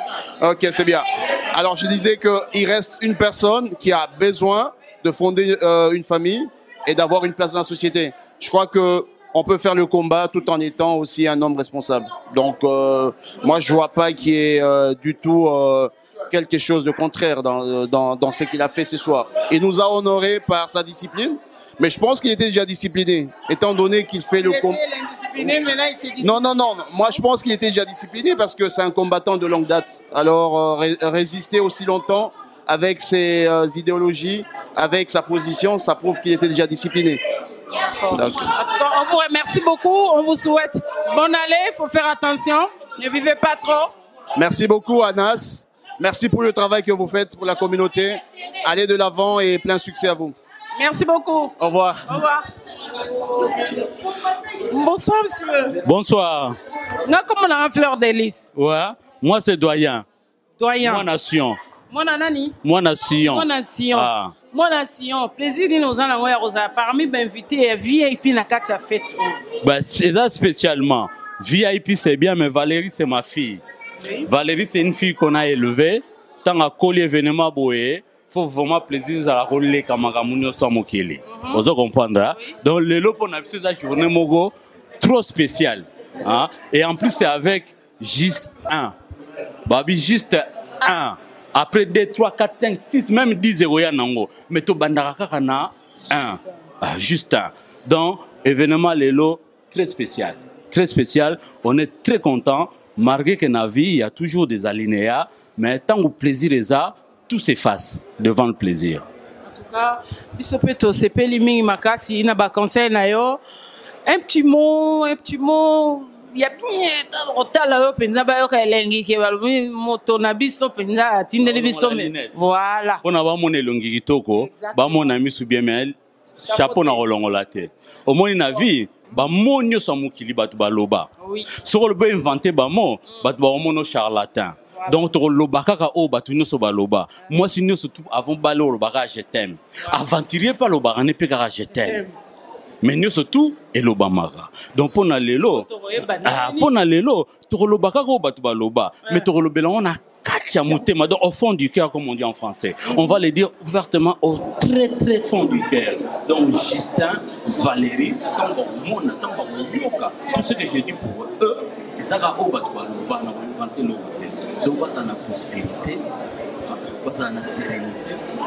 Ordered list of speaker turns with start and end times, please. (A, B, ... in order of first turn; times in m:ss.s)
0:00.4-0:24.8 A
0:24.4-0:26.4 B
0:26.2-0:37.2 A
0:37.8-0:43.9 B
0:44.4-0:50.3 A
0:50.8-0:51.5 B
0:51.6-0:52.0 A
0:52.0-0:52.4 B
0:53.2-0:53.6 B
0:54.7-0:55.8 B
0:55.8-0:56.6 C
0:57.0-0:58.5 B
0:58.6-1:00.0 C
1:00.6-1:01.0 B
1:00.8-1:01.6 C
1:01.9-1:02.6 B
1:02.6-1:04.3 C
1:03.2-1:09.4 B
1:09.6-1:13.6 C
1:14.2-1:28.9 C
1:21.3-1:21.6 B
1:29.6-1:49.0 C
1:49.5-1:53.4 B
1:54.0-2:03.0 B
2:01.4-2:02.4 C
2:03.0-2:22.0 C
2:04.4-2:05.1 B
2:06.4-2:07.0 B
2:11.2-2:11.5 B
2:21.7-2:22.1 B
2:22.8-2:25.6 C
2:25.4-2:26.7 B
2:26.2-2:46.0 C
2:32.9-2:33.1 B
2:47.0-2:48.2 C